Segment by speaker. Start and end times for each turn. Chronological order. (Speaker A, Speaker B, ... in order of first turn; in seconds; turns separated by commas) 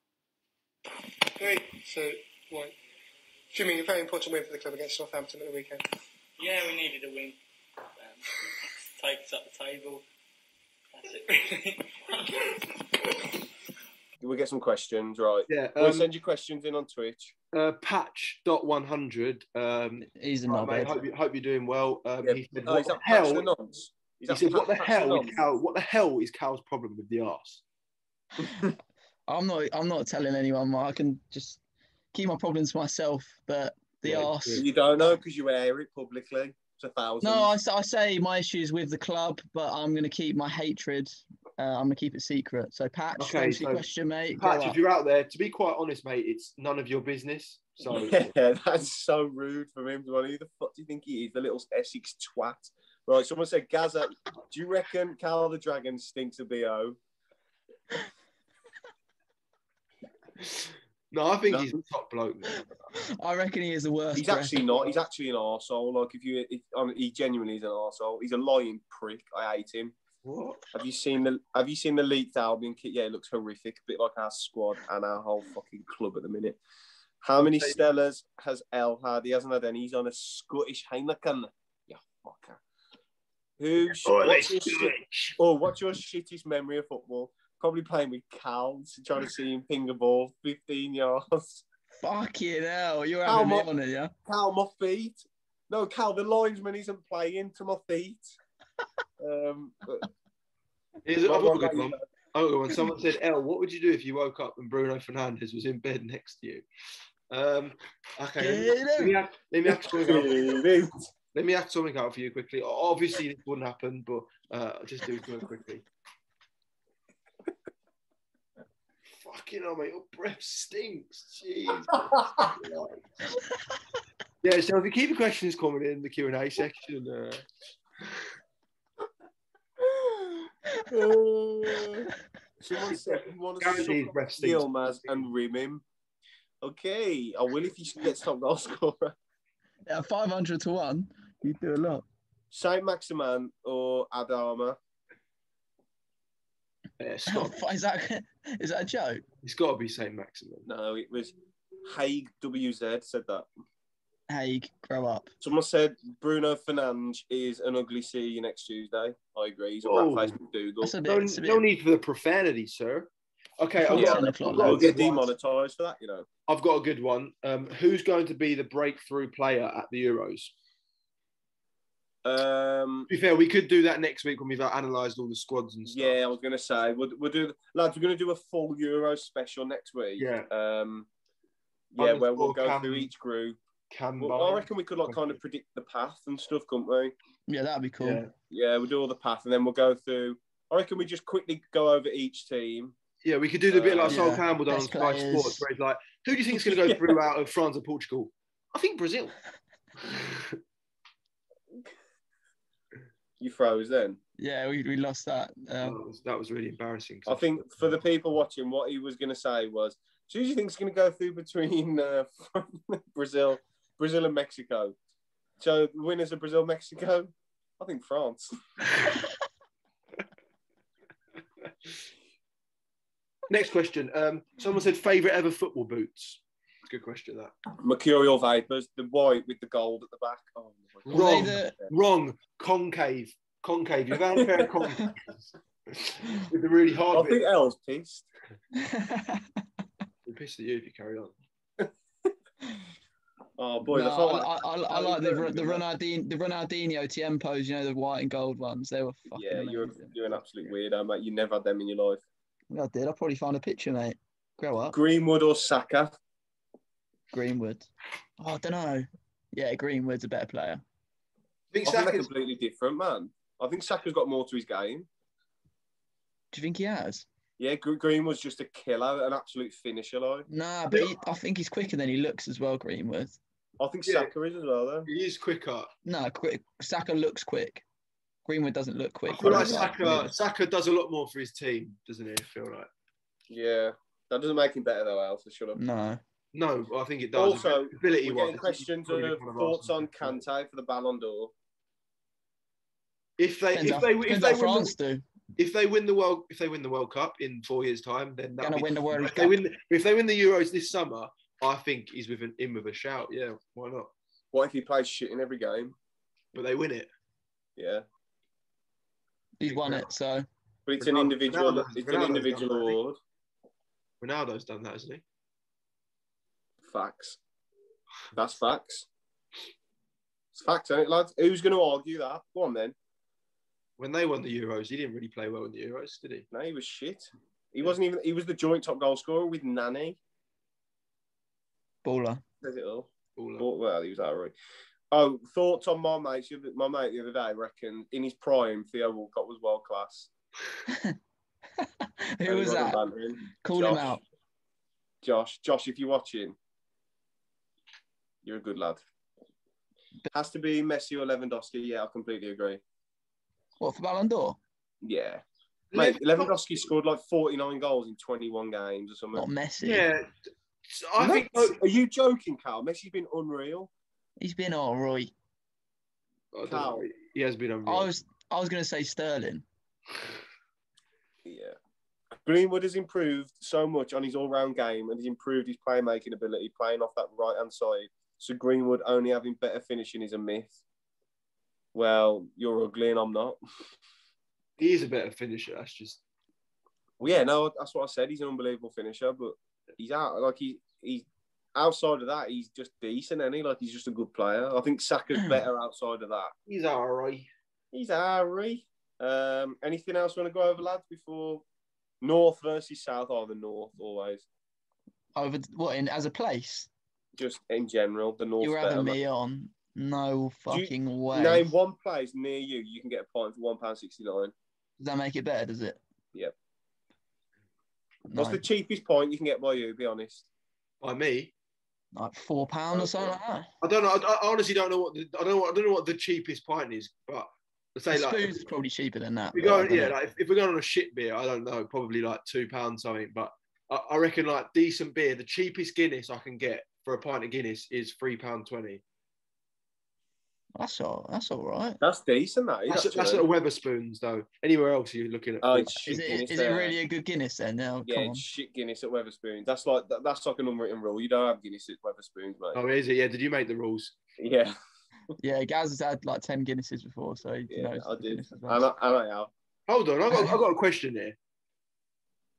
Speaker A: 1.4-2.7, Speaker A: 3.5-5.8, Speaker B: 6.4-7.4, Speaker B: 8.0-8.2, Speaker B: 9.0-10.0, Speaker B: 10.9-12.6, Speaker C: 14.2-17.3, Speaker D: 15.5-16.1, Speaker D: 17.5-23.5, Speaker E: 20.1-21.0, Speaker C: 22.2-25.4, Speaker D: 24.3-27.6, Speaker E: 29.3-31.6, Speaker E: 32.1-34.6, Speaker D: 34.0-34.6, Speaker C: 34.5-37.5, Speaker E: 37.2-44.8, Speaker D: 43.2-43.9, Speaker D: 44.4-48.3, Speaker C: 47.9-57.0, Speaker D: 60.4-62.7, Speaker E: 63.0-64.8, Speaker C: 64.1-69.9, Speaker D: 70.2-70.7, Speaker C: 70.7-76.6, Speaker C: 77.2-82.6, Speaker D: 77.4-77.8, Speaker C: 83.6-91.6, Speaker D: 84.0-85.3, Speaker E: 92.0-94.1, Speaker C: 93.2-93.7, Speaker C: 94.2-98.4, Speaker C: 99.2-100.1, Speaker D: 101.0-106.6, Speaker C: 101.2-102.0, Speaker D: 107.3-110.6, Speaker E: 108.4-109.1, Speaker C: 109.7-111.1, Speaker D: 111.3-115.8, Speaker D: 119.2-123.0, Speaker D: 124.4-127.4, Speaker C: 130.9-132.1, Speaker C: 132.6-135.8, Speaker D: 133.6-134.9, Speaker C: 136.6-139.1, Speaker E: 139.9-142.0, Speaker C: 142.5-144.8, Speaker D: 147.0-147.6, Speaker E: 147.3-149.2, Speaker D: 149.4-150.7, Speaker C: 150.7-151.3, Speaker C: 151.8-153.5, Speaker E: 154.3-155.3, Speaker C: 155.4-160.9, Speaker D: 159.8-160.3, Speaker E: 160.8-161.6, Speaker D: 161.0-165.3, Speaker E: 163.8-164.9, Speaker C: 163.9-166.3, Speaker D: 166.5-170.5, Speaker C: 172.2-173.1, Speaker D: 173.1-176.1, Speaker C: 175.8-181.1, Speaker D: 180.2-180.5, Speaker C: 181.9-183.6, Speaker D: 182.0-183.1, Speaker D: 183.9-185.3, Speaker C: 184.2-187.1, Speaker E: 187.5-188.2, Speaker D: 188.0-188.3, Speaker C: 188.5-192.9, Speaker D: 193.2-199.3, Speaker C: 193.7-194.3, Speaker E: 194.1-195.7, Speaker C: 196.6-197.2, Speaker D: 200.0-200.6, Speaker C: 203.4-204.2, Speaker E: 204.4-206.0, Speaker D: 205.8-207.5, Speaker C: 207.3-214.9, Speaker C: 215.6-218.5, Speaker D: 223.5-227.5, Speaker C: 227.8-231.9, Speaker D: 231.1-237.4, Speaker E: 231.1-231.7, Speaker C: 234.3-234.7, Speaker C: 237.1-238.3, Speaker E: 238.7-239.5, Speaker D: 240.3-241.3, Speaker C: 241.8-242.3, Speaker C: 243.6-245.8, Speaker E: 243.9-250.2, Speaker C: 249.3-252.2, Speaker E: 252.7-255.0, Speaker C: 254.9-256.2, Speaker E: 257.3-257.9, Speaker E: 258.4-260.8, Speaker D: 261.7-262.3, Speaker C: 261.8-265.1, Speaker E: 266.5-267.2, Speaker C: 267.6-270.4, Speaker E: 270.5-273.4, Speaker C: 273.8-275.1, Speaker D: 274.0-274.3, Speaker D: 275.1-275.9, Speaker E: 276.0-277.8, Speaker E: 278.4-280.3, Speaker D: 279.3-282.9, Speaker C: 283.5-285.8, Speaker E: 285.8-286.2, Speaker D: 286.5-290.4, Speaker C: 287.3-291.5, Speaker D: 293.4-294.9, Speaker E: 293.7-295.2, Speaker D: 295.6-304.1, Speaker E: 298.6-299.6, Speaker C: 304.5-305.9, Speaker D: 306.5-307.1, Speaker C: 307.8-308.0, Speaker E: 309.6-310.4, Speaker D: 309.7-310.1, Speaker C: 310.9-313.2, Speaker D: 311.0-312.9, Speaker D: 314.2-315.2, Speaker C: 316.8-317.4, Speaker C: 318.3-319.1, Speaker C: 320.5-322.9, Speaker D: 324.0-326.4, Speaker C: 326.5-330.2, Speaker E: 332.0-332.4, Speaker C: 332.6-334.5, Speaker D: 333.4-333.7, Speaker C: 335.1-340.3, Speaker E: 340.9-341.1, Speaker E: 341.8-343.0, Speaker C: 342.4-344.2, Speaker E: 343.6-344.2, Speaker C: 345.2-346.6, Speaker C: 348.4-349.0, Speaker C: 350.3-352.8, Speaker E: 353.8-354.6, Speaker C: 355.0-355.4, Speaker D: 355.9-356.6, Speaker C: 355.9-359.5, Speaker E: 359.3-360.1, Speaker D: 359.8-360.3, Speaker D: 360.9-361.8, Speaker C: 361.2-363.9, Speaker E: 364.4-365.3, Speaker D: 366.5-368.1, Speaker C: 366.6-367.1, Speaker E: 367.9-369.6, Speaker C: 371.4-371.8, Speaker C: 372.4-380.8, Speaker C: 381.9-383.6, Speaker D: 384.8-386.2, Speaker C: 387.2-396.5, Speaker D: 396.7-397.5, Speaker C: 397.9-401.6, Speaker C: 402.2-404.4, Speaker E: 405.4-406.9, Speaker C: 407.4-409.2, Speaker E: 408.6-411.7, Speaker C: 410.7-414.5, Speaker E: 415.0-416.0, Speaker E: 418.3-418.6, Speaker C: 418.3-420.4, Speaker D: 421.0-421.5, Speaker E: 422.1-423.7, Speaker C: 422.9-423.4, Speaker D: 423.8-428.5, Speaker E: 428.1-430.2, Speaker D: 429.5-439.0, Speaker E: 440.8-442.0, Speaker C: 442.0-443.5, Speaker D: 442.9-446.4, Speaker C: 445.6-446.9, Speaker E: 446.1-448.4, Speaker C: 448.1-452.8, Speaker D: 452.7-454.2, Speaker C: 454.4-454.8, Speaker E: 455.4-458.8, Speaker C: 457.7-459.5, Speaker D: 459.9-461.4